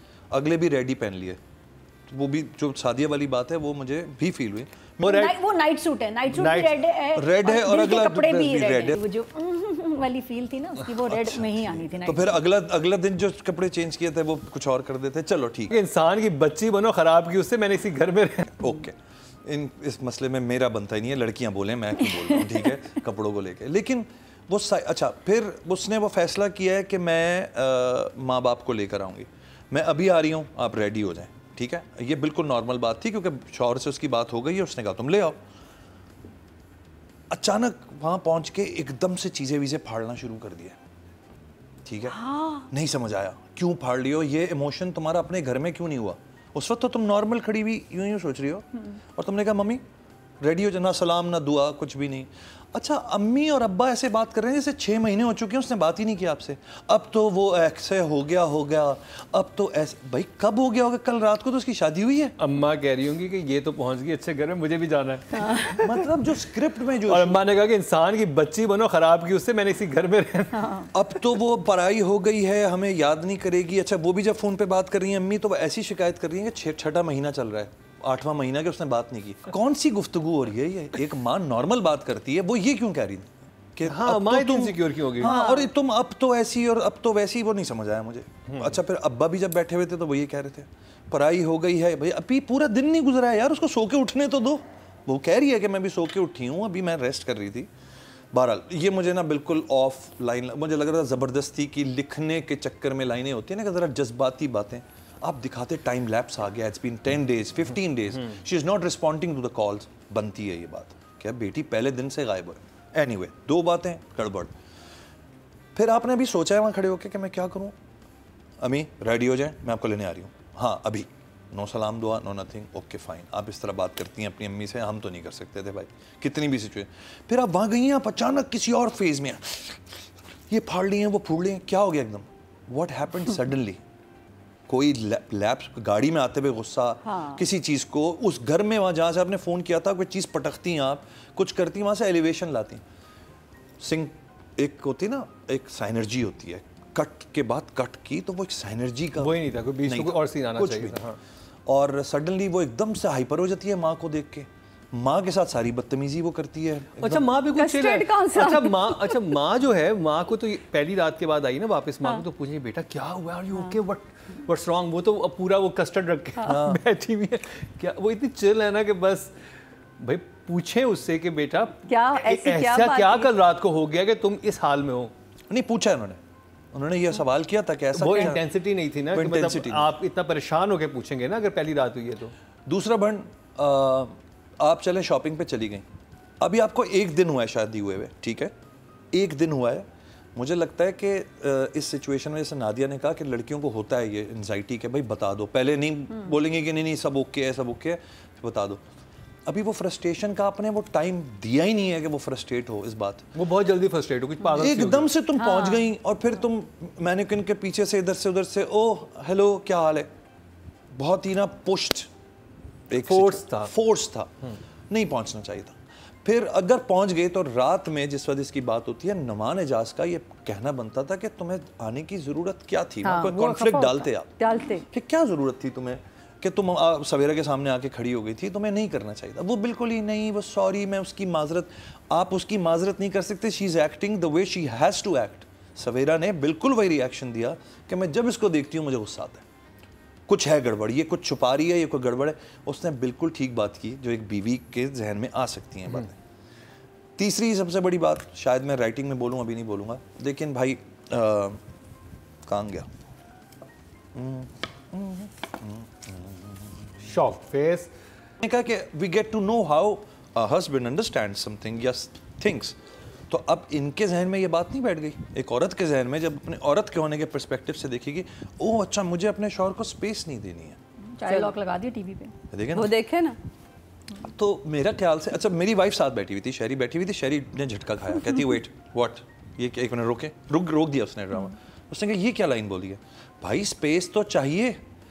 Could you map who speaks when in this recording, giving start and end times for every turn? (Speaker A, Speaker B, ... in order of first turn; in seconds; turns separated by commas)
Speaker A: 0.3-1.4, Speaker A: 2.1-5.2, Speaker B: 5.0-5.4, Speaker C: 5.0-12.4, Speaker B: 6.3-6.9, Speaker A: 7.1-9.0, Speaker A: 11.1-15.8, Speaker B: 15.7-18.6, Speaker A: 18.6-35.4, Speaker A: 37.3-40.8, Speaker A: 41.9-49.8, Speaker A: 50.4-62.4, Speaker B: 62.4-66.3, Speaker A: 65.6-67.4, Speaker B: 66.8-71.0, Speaker A: 70.9-97.7, Speaker B: 83.8-85.4, Speaker C: 85.2-85.7, Speaker B: 88.5-88.8, Speaker A: 98.3-114.5, Speaker A: 115.8-117.8, Speaker A: 118.6-133.8, Speaker A: 134.7-142.8, Speaker C: 137.1-137.4, Speaker A: 143.8-151.0, Speaker B: 149.2-151.2, Speaker A: 151.7-157.3, Speaker B: 157.0-169.3, Speaker D: 157.5-159.2, Speaker A: 166.4-166.8, Speaker B: 170.0-175.1, Speaker D: 171.9-173.3, Speaker A: 175.5-176.2, Speaker A: 176.7-178.4, Speaker B: 177.9-182.3, Speaker A: 179.1-179.9, Speaker A: 182.7-185.8, Speaker A: 186.4-188.5, Speaker A: 189.1-198.8, Speaker A: 199.5-203.3, Speaker B: 203.3-205.1, Speaker A: 204.6-210.1, Speaker C: 205.3-205.9, Speaker A: 210.9-212.1, Speaker A: 212.9-214.3, Speaker B: 213.0-213.7, Speaker A: 214.9-239.4, Speaker D: 223.0-224.8, Speaker A: 240.3-246.2, Speaker A: 247.2-251.6, Speaker A: 252.4-252.9, Speaker A: 254.2-256.9, Speaker B: 257.0-257.9, Speaker A: 258.4-262.8, Speaker A: 263.3-270.8, Speaker C: 271.2-272.3, Speaker D: 271.2-271.6, Speaker A: 272.5-273.0, Speaker D: 272.8-273.4, Speaker A: 274.2-284.8